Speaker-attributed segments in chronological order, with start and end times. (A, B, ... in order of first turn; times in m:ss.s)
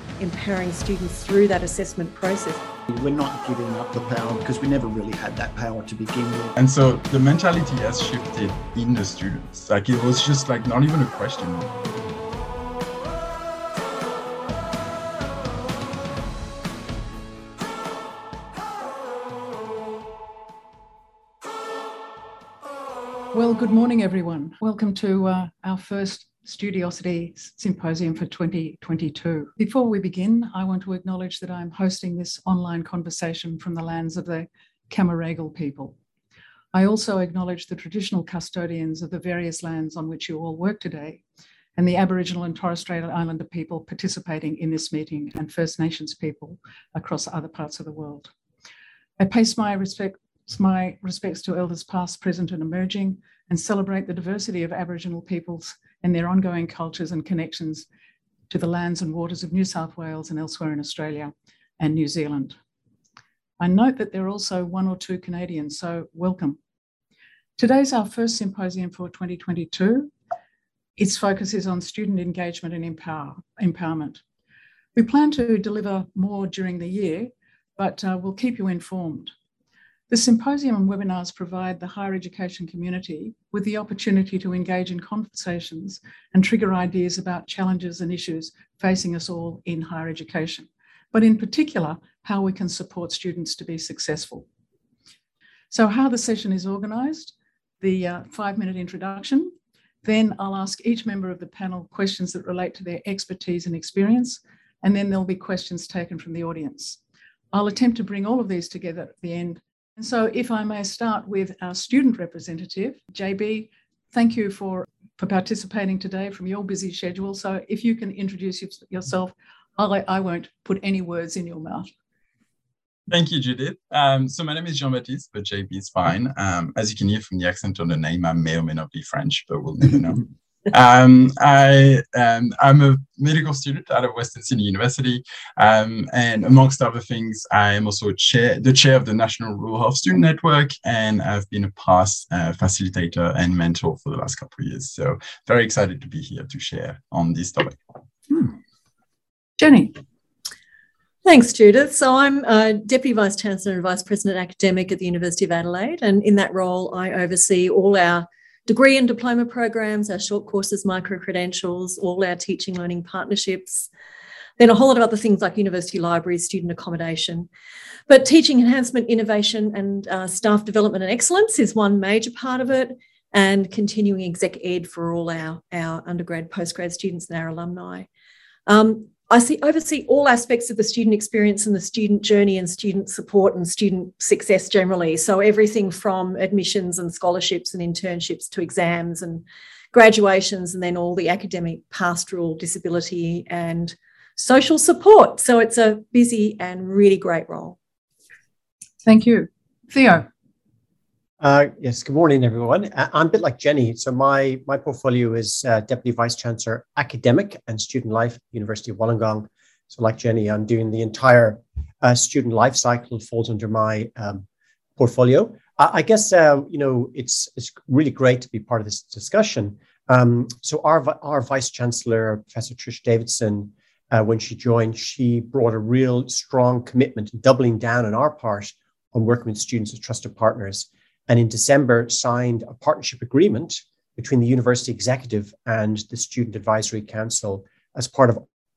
0:00.2-0:02.6 A
0:02.9-0:06.5 B
0:06.6-0:11.7 C
0:23.3-0:35.9 D
0:36.7-0:41.2 D
0:41.8-0:48.3 D
0:49.2-0:57.8 D
0:58.5-1:02.6 D
1:03.6-1:06.6 D
1:07.6-1:10.1 D
1:11.0-1:14.2 D
1:14.9-1:19.3 D
1:20.1-1:34.4 D
1:35.7-1:39.5 D
1:40.0-1:47.0 D
1:47.5-2:01.9 D
2:03.1-2:27.8 C
2:29.6-2:30.0 D
2:31.2-2:43.9 A
2:44.6-2:47.5 A
2:48.1-2:58.1 A
2:58.7-3:17.8 A
3:19.0-3:20.3 D
3:21.4-3:34.4 E
3:35.0-3:58.4 E